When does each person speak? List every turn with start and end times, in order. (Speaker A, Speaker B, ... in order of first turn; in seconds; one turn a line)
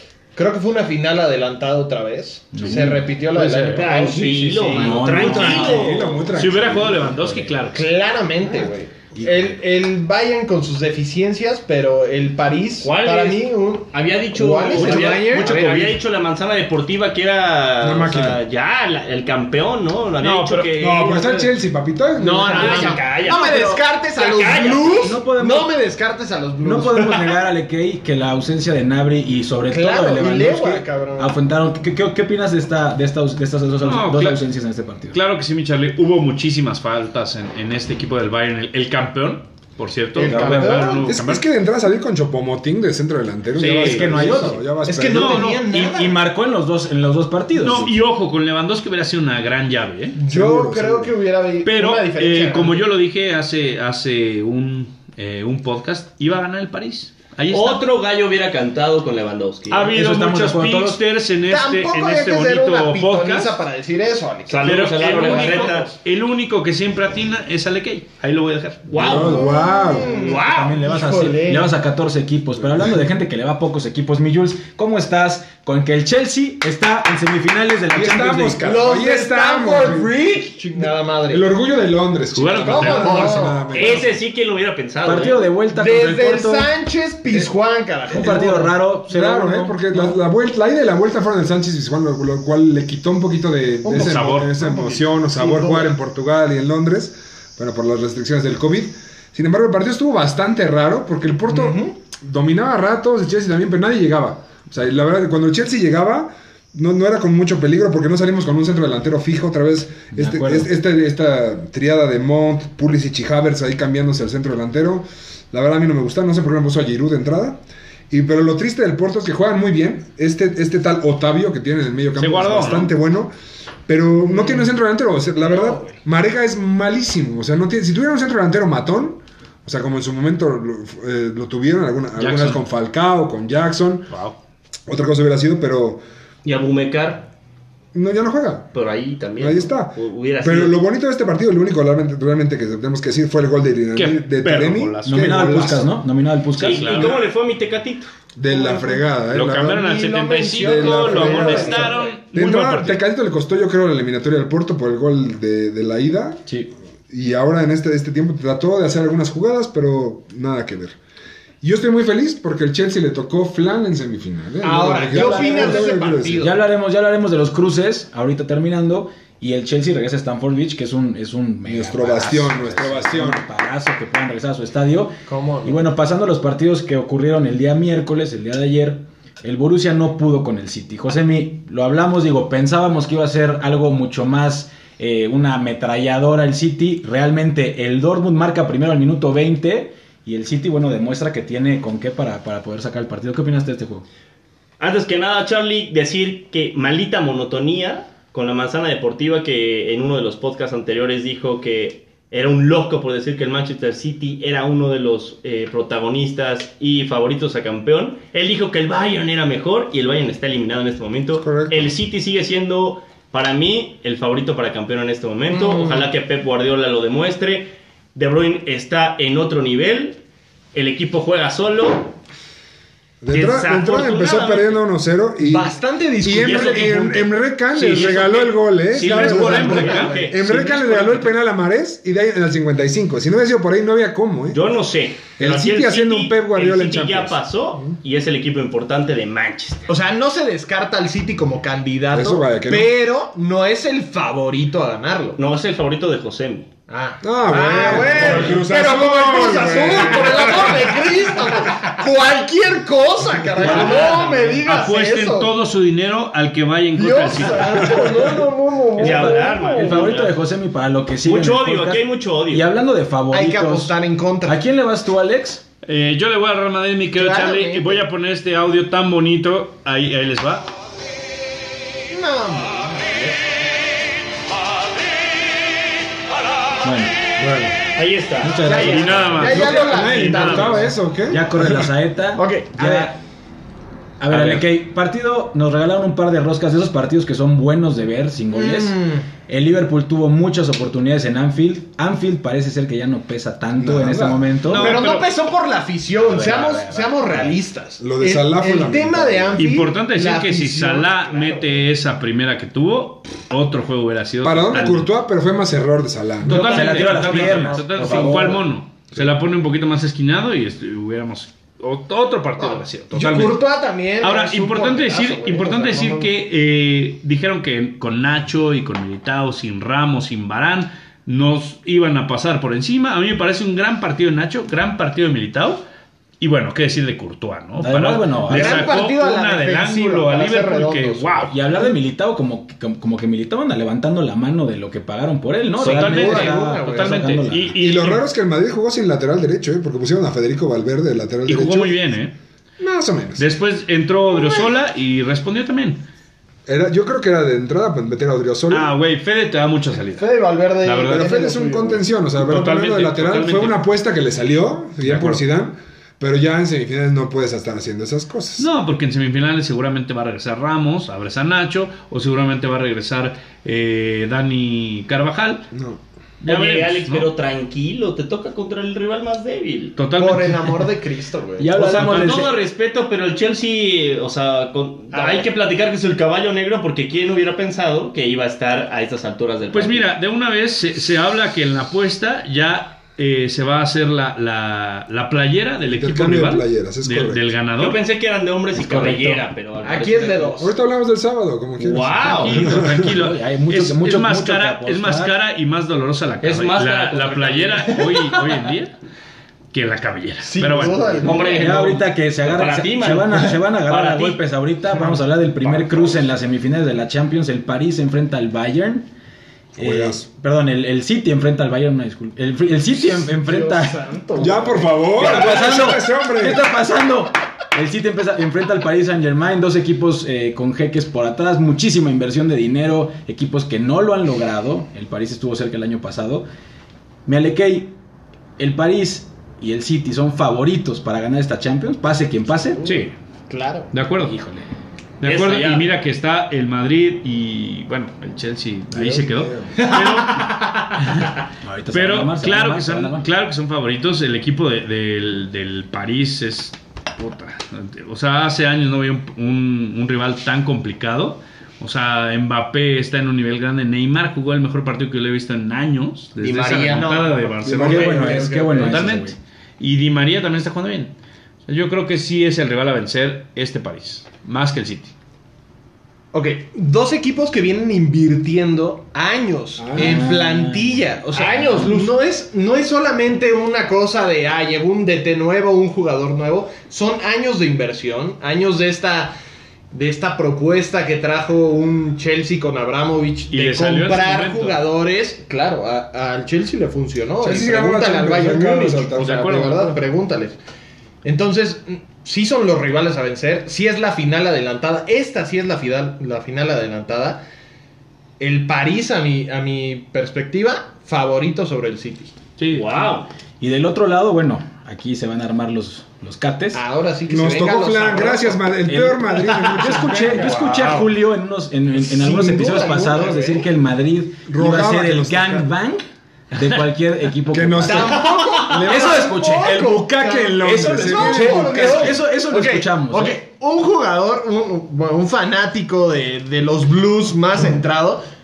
Speaker A: 0.3-5.1
Speaker B: 2.5-3.1
Speaker C: 2.7-4.2
Speaker D: 3.8-6.1
Speaker B: 4.2-5.9
Speaker C: 4.8-7.8
Speaker E: 5.1-7.2
Speaker B: 7.2-7.5
Speaker A: 7.7-15.9
Speaker B: 9.1-9.5
Speaker D: 12.8-21.5
Speaker C: 14.8-15.9
Speaker E: 17.8-18.4
Speaker C: 20.2-20.7
Speaker E: 20.8-23.0
Speaker A: 22.2-27.3
Speaker D: 22.5-25.1
Speaker B: 25.0-25.7
Speaker B: 26.6-35.2
Speaker A: 29.6-31.4
Speaker C: 33.8-34.4
Speaker C: 35.1-41.5
Speaker A: 40.1-41.1
Speaker B: 40.2-40.9
Speaker E: 41.0-45.4
Speaker C: 43.6-44.2
Speaker B: 43.6-48.0
Speaker A: 43.8-46.2
Speaker C: 45.1-45.5
Speaker C: 47.5-50.2
Speaker A: 50.2-52.9
Speaker E: 50.3-51.1
Speaker C: 51.6-57.9
Speaker D: 57.5-59.9
Speaker C: 59.7-63.6
Speaker B: 59.9-61.0
Speaker A: 61.5-65.8
Speaker D: 64.5-65.9
Speaker C: 64.6-69.1
Speaker D: 68.9-69.5
Speaker E: 69.0-70.3
Speaker A: 69.0-71.7
Speaker D: 70.2-70.8
Speaker B: 70.3-78.8
Speaker E: 77.9-80.1
Speaker A: 78.6-81.5
Speaker E: 80.8-84.2
Speaker C: 82.3-83.4
Speaker A: 82.6-84.0
Speaker D: 83.7-85.4
Speaker B: 85.0-86.7
Speaker A: 85.2-88.8
Speaker B: 88.1-89.9
Speaker E: 89.1-123.3
Speaker A: 93.8-96.0
Speaker C: 93.9-94.5
Speaker A: 101.5-101.9
Speaker B: 110.1-110.7
Speaker C: 122.2-122.9
Speaker E: 123.9-134.1
Speaker A: 124.3-124.7
Speaker A: 125.4-126.0
Speaker C: 132.2-132.6
Speaker C: 134.1-134.4
Speaker E: 134.9-136.0
Speaker D: 136.4-137.3
Speaker E: 137.9-138.7
Speaker D: 138.7-140.8
Speaker E: 139.4-145.9
Speaker C: 143.9-145.8
Speaker B: 145.0-147.1
Speaker C: 146.6-147.2
Speaker D: 146.6-148.1
Speaker E: 148.4-149.9
Speaker A: 148.5-149.1
Speaker C: 149.3-153.0
Speaker A: 149.8-152.1
Speaker E: 150.6-156.5
Speaker E: 157.1-161.0
Speaker E: 161.6-166.5
Speaker A: 164.6-166.6
Speaker B: 165.0-194.1
Speaker E: 171.7-173.4
Speaker A: 175.3-175.8
Speaker D: 194.8-220.2
Speaker E: 211.4-211.9
Speaker A: 215.5-216.1
Speaker D: 220.7-222.2
Speaker E: 223.2-234.6
Speaker D: 223.3-224.8
Speaker A: 225.4-227.3
Speaker D: 226.4-227.0
Speaker D: 227.8-230.7
Speaker C: 227.8-228.3
Speaker C: 229.0-230.2
Speaker A: 229.1-231.2
Speaker D: 234.5-239.9
Speaker E: 235.4-237.9
Speaker A: 239.9-245.4
Speaker E: 242.1-242.9
Speaker D: 245.4-246.7
Speaker A: 246.9-255.5
Speaker E: 247.2-251.2
Speaker E: 253.6-254.2
Speaker D: 253.7-254.6
Speaker C: 253.7-254.1
Speaker C: 254.6-258.1
Speaker A: 257.0-260.2
Speaker D: 259.0-260.4
Speaker B: 259.0-265.6
Speaker D: 261.2-262.7
Speaker A: 263.3-264.6
Speaker C: 265.9-270.7
Speaker A: 267.1-268.0
Speaker A: 272.1-273.5
Speaker B: 276.8-277.2
Speaker E: 277.4-277.8
Speaker D: 278.0-279.0
Speaker B: 278.4-279.6
Speaker A: 278.6-281.0
Speaker C: 278.8-280.7
Speaker E: 279.5-281.6
Speaker D: 280.2-280.7
Speaker B: 281.3-283.2
Speaker A: 282.4-283.1
Speaker B: 284.2-295.0
Speaker A: 288.5-289.3
Speaker E: 293.8-294.5
Speaker C: 294.7-295.3
Speaker A: 294.7-301.9
Speaker B: 296.2-297.6
Speaker E: 298.0-299.6
Speaker C: 299.6-305.1
Speaker E: 304.4-306.9
Speaker C: 306.4-313.6
Speaker B: 306.5-308.6
Speaker A: 306.5-308.6
Speaker A: 312.6-316.3
Speaker E: 313.2-313.5
Speaker C: 314.2-325.8
Speaker C: 326.4-331.6
Speaker B: 327.8-328.9
Speaker A: 328.5-331.5
Speaker B: 331.5-337.8
Speaker C: 335.8-338.2
Speaker A: 335.8-337.6
Speaker E: 335.9-336.4
Speaker E: 337.8-342.0
Speaker C: 341.5-342.3
Speaker E: 342.8-343.5
Speaker C: 343.4-346.0
Speaker E: 346.7-348.9
Speaker C: 348.7-350.2
Speaker A: 350.2-352.1
Speaker C: 350.8-351.3
Speaker E: 351.1-358.7
Speaker C: 352.4-353.8
Speaker C: 355.0-355.4
Speaker C: 358.6-365.7
Speaker E: 365.7-366.0
Speaker C: 366.4-367.3
Speaker D: 366.4-370.0
Speaker C: 370.0-370.9
Speaker A: 370.2-372.2
Speaker B: 371.6-372.5
Speaker D: 371.8-380.1
Speaker C: 372.0-372.4
Speaker A: 375.1-375.5
Speaker C: 379.7-388.0
Speaker E: 385.9-387.4
Speaker D: 387.8-390.6
Speaker B: 388.8-389.4
Speaker A: 389.8-390.7
Speaker E: 390.6-393.1
Speaker D: 391.8-392.7
Speaker C: 392.2-399.0
Speaker B: 393.0-395.3
Speaker D: 396.4-398.5
Speaker C: 399.7-401.6
Speaker A: 400.4-401.8
Speaker D: 401.1-404.4
Speaker B: 401.5-409.1
Speaker D: 405.6-406.2
Speaker E: 409.8-410.3
Speaker B: 409.8-414.0
Speaker A: 412.9-415.9
Speaker E: 414.4-416.6
Speaker B: 415.1-426.5
Speaker B: 427.3-427.9
Speaker B: 428.6-432.9
Speaker A: 432.6-433.9
Speaker C: 432.8-433.1
Speaker C: 433.9-434.4
Speaker B: 434.2-434.7
Speaker C: 435.2-440.6
Speaker D: 435.2-435.9
Speaker E: 438.9-439.9
Speaker D: 439.8-441.2
Speaker B: 441.6-443.3
Speaker C: 441.9-461.1
Speaker D: 456.4-457.3
Speaker A: 456.5-459.1
Speaker E: 457.7-458.4
Speaker B: 457.7-459.4
Speaker C: 461.7-465.1
Speaker A: 466.3-479.3
Speaker E: 469.8-470.3
Speaker B: 469.9-471.9
Speaker D: 471.3-471.9
Speaker A: 479.9-490.6
Speaker C: 483.5-484.8
Speaker E: 487.4-489.9
Speaker C: 489.2-489.8
Speaker A: 491.2-497.4
Speaker A: 498.4-502.4
Speaker C: 502.6-503.0
Speaker D: 502.7-503.3
Speaker B: 503.6-506.8
Speaker A: 506.7-508.7
Speaker E: 507.3-511.1
Speaker B: 508.9-519.9
Speaker A: 509.7-510.9
Speaker A: 512.0-513.7
Speaker E: 512.7-513.3
Speaker E: 514.5-515.7
Speaker E: 517.5-522.2
Speaker A: 517.8-528.2
Speaker B: 520.6-523.4